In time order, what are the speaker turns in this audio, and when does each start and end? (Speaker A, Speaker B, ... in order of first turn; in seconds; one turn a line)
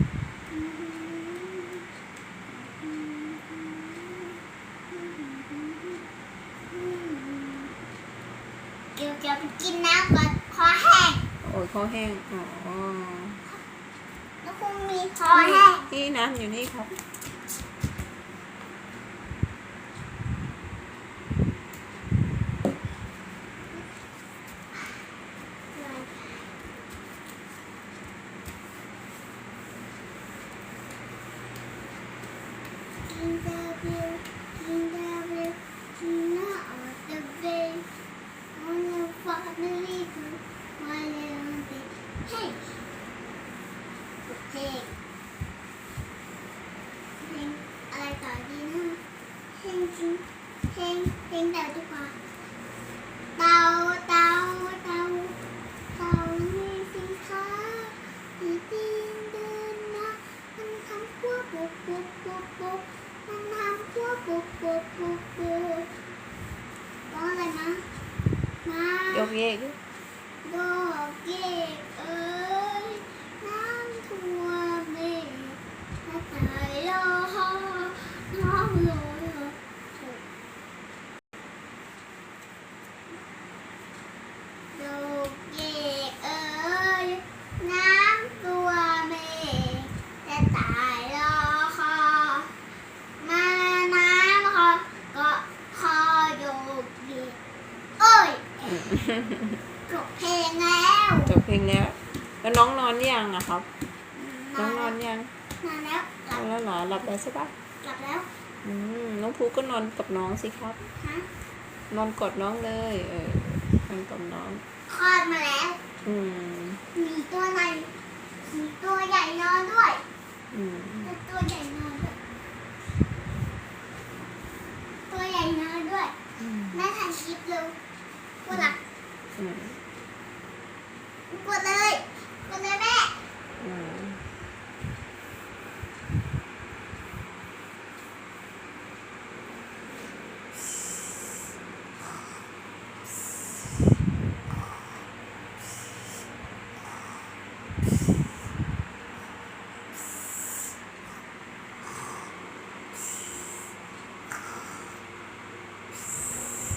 Speaker A: 0.5-1.8
Speaker A: 2.5-4.4
Speaker A: 4.9-6.0
Speaker A: 6.7-7.7
Speaker A: 8.9-11.2
Speaker B: 11.4-13.4
Speaker A: 14.4-15.9
Speaker B: 15.3-17.0
Speaker A: 25.7-26.5
Speaker A: 33.0-37.9
Speaker A: 38.5-42.8
Speaker A: 44.3-44.9
Speaker A: 47.2-49.0
Speaker A: 49.5-52.1
Speaker A: 53.4-55.4
Speaker A: 55.9-65.9
Speaker A: 67.1-67.9
Speaker A: 68.6-69.3
Speaker B: 69.1-69.8
Speaker A: 70.4-80.2
Speaker A: 84.7-92.5
Speaker A: 93.2-97.4
Speaker A: 98.0-98.9
Speaker B: 98.8-99.6
Speaker A: 99.9-101.3
Speaker B: 101.3-103.7
Speaker A: 104.1-104.9
Speaker B: 104.6-105.3
Speaker A: 105.6-106.4
Speaker B: 106.3-107.5
Speaker A: 107.8-108.3
Speaker B: 108.6-110.8
Speaker A: 111.0-111.3
Speaker B: 111.9-114.6
Speaker A: 114.9-115.8
Speaker B: 116.0-116.8
Speaker A: 116.9-117.9
Speaker A: 118.5-120.0
Speaker B: 120.5-121.1
Speaker A: 121.0-122.2
Speaker A: 125.1-126.2
Speaker A: 126.7-127.8
Speaker A: 128.4-128.8
Speaker B: 129.3-129.8
Speaker A: 131.3-133.2
Speaker B: 133.6-134.2